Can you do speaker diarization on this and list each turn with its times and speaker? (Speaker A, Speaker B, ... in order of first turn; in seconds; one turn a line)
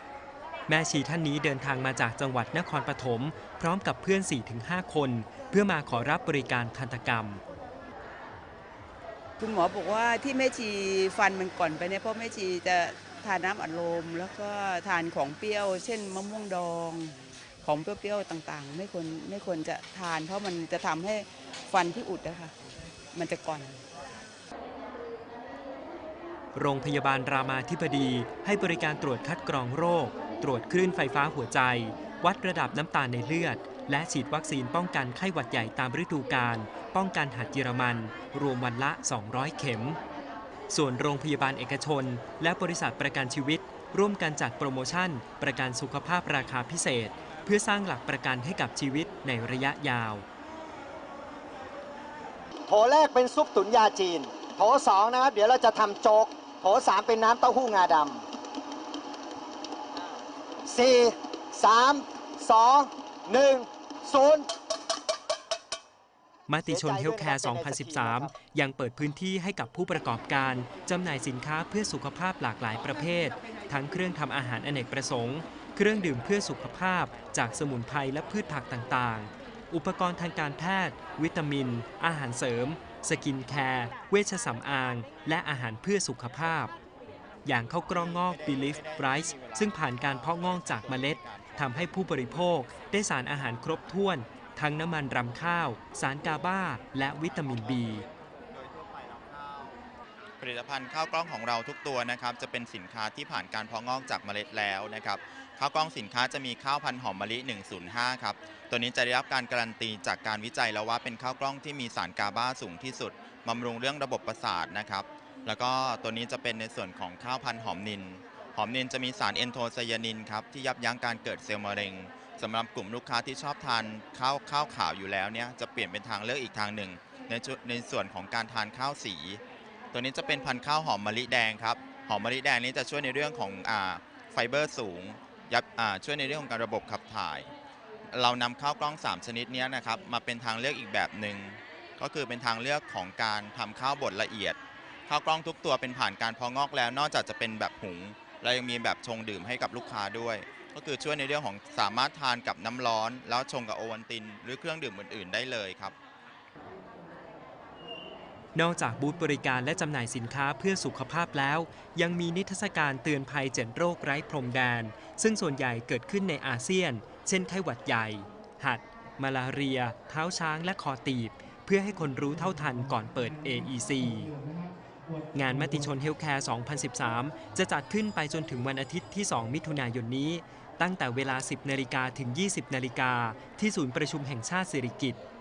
Speaker A: 0.7-7.4
Speaker B: 9.4-22.5
Speaker B: 23.1-23.8
Speaker A: 26.5-40.0
Speaker A: 40.7-50.2
Speaker C: 52.7-58.2
Speaker C: 60.6-64.5
Speaker A: 66.5-86.7
Speaker C: 66.7-68.3
Speaker A: 87.4-98.0
Speaker D: 100.4-129.4
Speaker D: 129.9-137.5
Speaker D: 138.1-155.9
Speaker A: 158.5-174.3
Speaker A: 175.3-185.2